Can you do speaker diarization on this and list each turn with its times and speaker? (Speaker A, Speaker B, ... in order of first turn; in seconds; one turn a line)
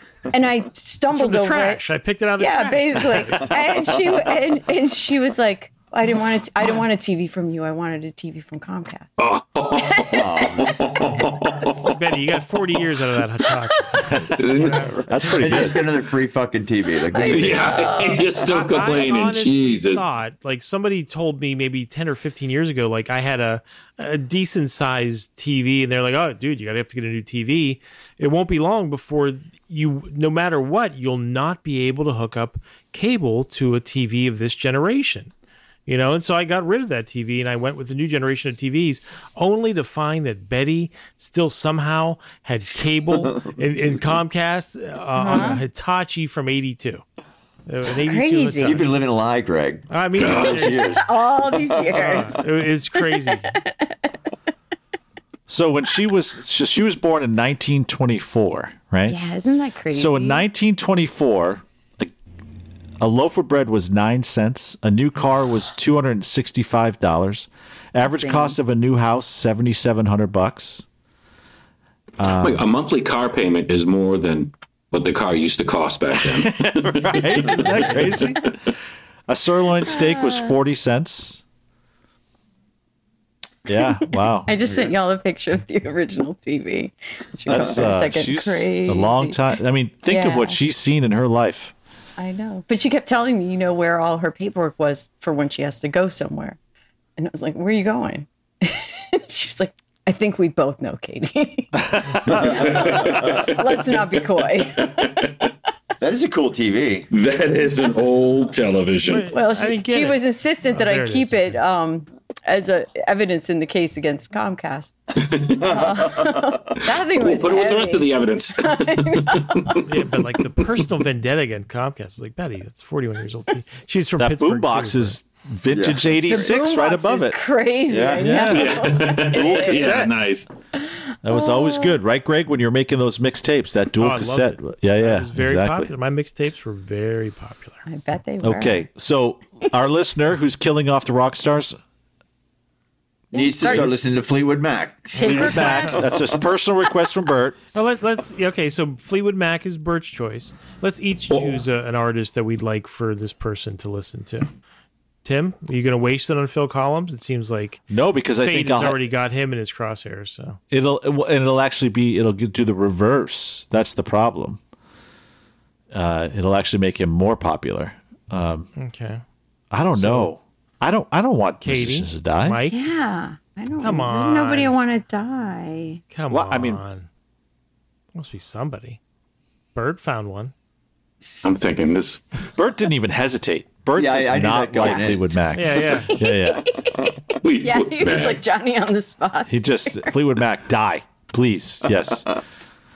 Speaker A: 0.3-1.8
Speaker B: 1.1-3.5
Speaker A: 2.4-9.1
Speaker C: 9.2-11.9
Speaker A: 9.7-10.7
Speaker D: 10.1-11.1
Speaker B: 11.8-15.3
Speaker C: 14.3-14.9
Speaker D: 14.7-18.0
Speaker E: 15.1-15.8
Speaker A: 17.1-18.4
Speaker C: 17.2-20.0
Speaker B: 18.3-35.3
Speaker B: 35.9-47.0
Speaker A: 45.1-45.6
Speaker B: 47.7-48.9
Speaker A: 48.0-48.9
Speaker D: 48.6-51.0
Speaker B: 49.9-51.0
Speaker C: 50.2-50.8
Speaker A: 50.8-52.5
Speaker B: 51.9-53.5
Speaker A: 53.7-53.9
Speaker E: 55.5-59.2
Speaker A: 59.1-60.4
Speaker E: 59.9-62.1
Speaker E: 63.0-70.8
Speaker A: 68.1-68.5
Speaker E: 72.2-72.7
Speaker C: 72.3-78.4
Speaker E: 76.3-78.5
Speaker E: 79.3-81.4
Speaker A: 79.9-80.5
Speaker E: 83.7-84.5
Speaker A: 84.5-89.4
Speaker E: 87.5-91.7
Speaker A: 90.1-90.6
Speaker A: 92.2-96.6
Speaker A: 97.2-105.3
Speaker C: 102.4-104.2
Speaker C: 104.8-105.3
Speaker D: 106.0-107.1
Speaker C: 107.1-109.3
Speaker B: 109.0-111.6
Speaker A: 109.3-119.8
Speaker C: 115.2-115.7
Speaker C: 116.9-119.8
Speaker B: 119.8-125.2
Speaker E: 124.2-130.1
Speaker D: 125.7-126.4
Speaker A: 126.3-130.1
Speaker D: 127.9-128.3
Speaker C: 128.4-130.5
Speaker A: 130.8-132.0
Speaker E: 131.2-135.9
Speaker B: 134.0-137.8
Speaker A: 137.9-138.8
Speaker E: 138.4-141.8
Speaker D: 143.3-146.4
Speaker A: 143.3-143.9
Speaker A: 145.1-146.2
Speaker E: 145.2-147.6
Speaker B: 145.3-145.9
Speaker B: 147.7-154.5
Speaker C: 151.3-151.6
Speaker B: 155.2-157.8
Speaker E: 157.9-159.1
Speaker B: 158.4-160.6
Speaker E: 160.7-164.6
Speaker E: 165.9-168.7
Speaker B: 168.8-169.2
Speaker E: 169.7-172.6
Speaker B: 169.9-170.3
Speaker B: 171.6-172.8
Speaker A: 172.7-176.0
Speaker B: 173.8-174.7
Speaker B: 176.1-177.1
Speaker E: 176.3-176.8
Speaker B: 178.1-179.0
Speaker B: 179.7-180.5
Speaker C: 181.4-182.2
Speaker E: 182.6-186.7
Speaker D: 183.9-185.3
Speaker B: 185.5-186.1
Speaker A: 186.1-190.1
Speaker C: 187.4-188.4
Speaker E: 189.5-192.3